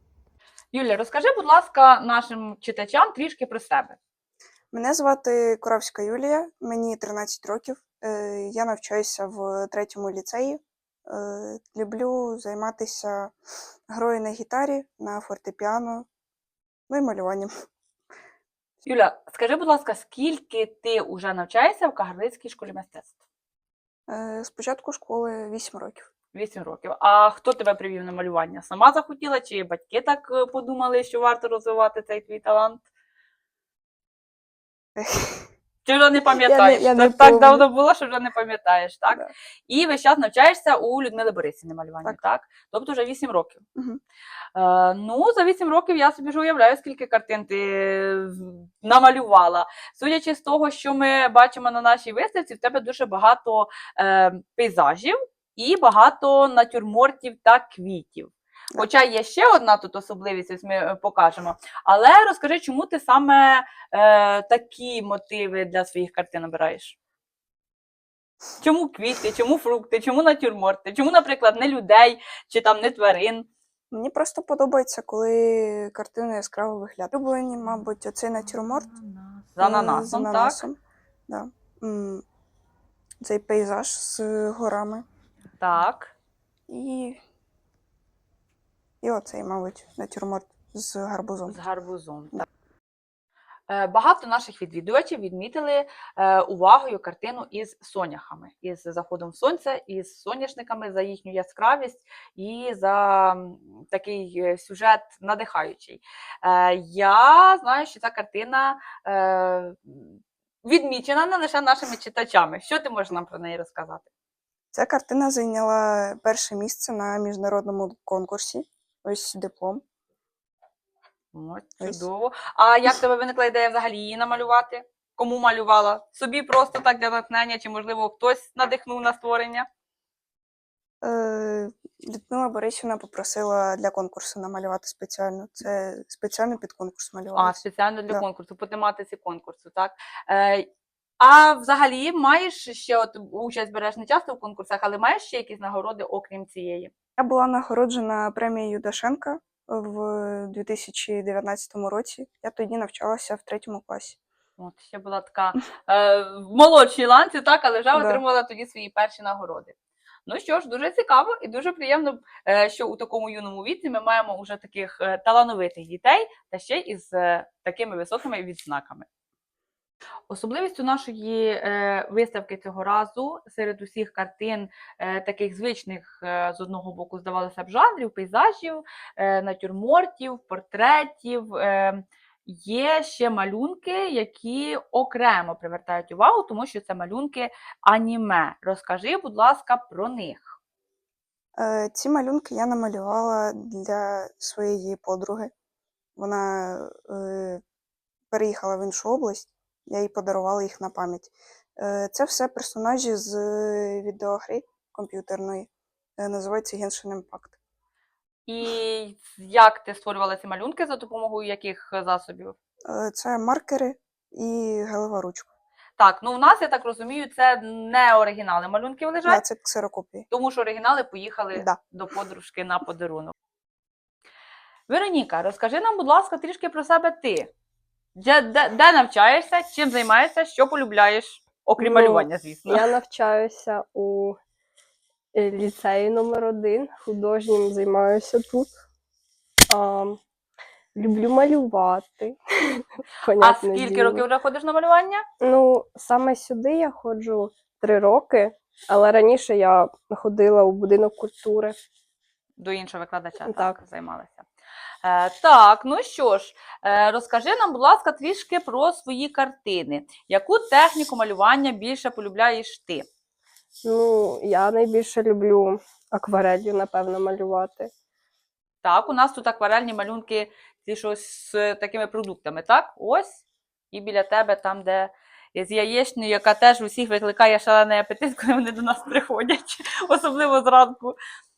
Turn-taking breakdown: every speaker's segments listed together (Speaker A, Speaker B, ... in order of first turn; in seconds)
Speaker A: 0.7-4.0, 18.8-23.2, 26.3-32.8, 35.9-43.6, 44.5-67.0, 68.6-73.5, 78.4-80.7, 85.6-86.1, 91.5-92.4, 93.7-114.1, 121.3-129.7, 137.3-140.7, 141.2-146.9, 154.6-159.8, 160.3-169.1, 170.3-190.6, 208.5-212.6, 216.0-219.4, 220.3-223.3, 224.9-227.5, 228.2-232.9, 243.4-245.2, 252.6-254.5, 255.0-263.1, 268.8-281.2
Speaker B: 4.7-13.3, 13.9-16.1, 16.9-17.5, 24.1-26.1, 35.0-35.4, 36.7-37.1, 43.8-44.0, 73.9-78.9, 79.6-82.2, 83.2-85.0, 86.7-87.2, 89.0-91.6, 114.7-119.8, 121.8-122.1, 131.0-137.6, 147.2-154.2, 157.9-158.2, 191.6-195.5, 196.2-197.6, 198.3-207.6, 212.9-215.5, 219.2-220.3
Speaker C: 36.5-37.5, 231.8-234.4, 235.3-238.7, 239.7-240.2, 240.9-244.2, 245.4-251.8, 253.4-253.8, 263.8-267.9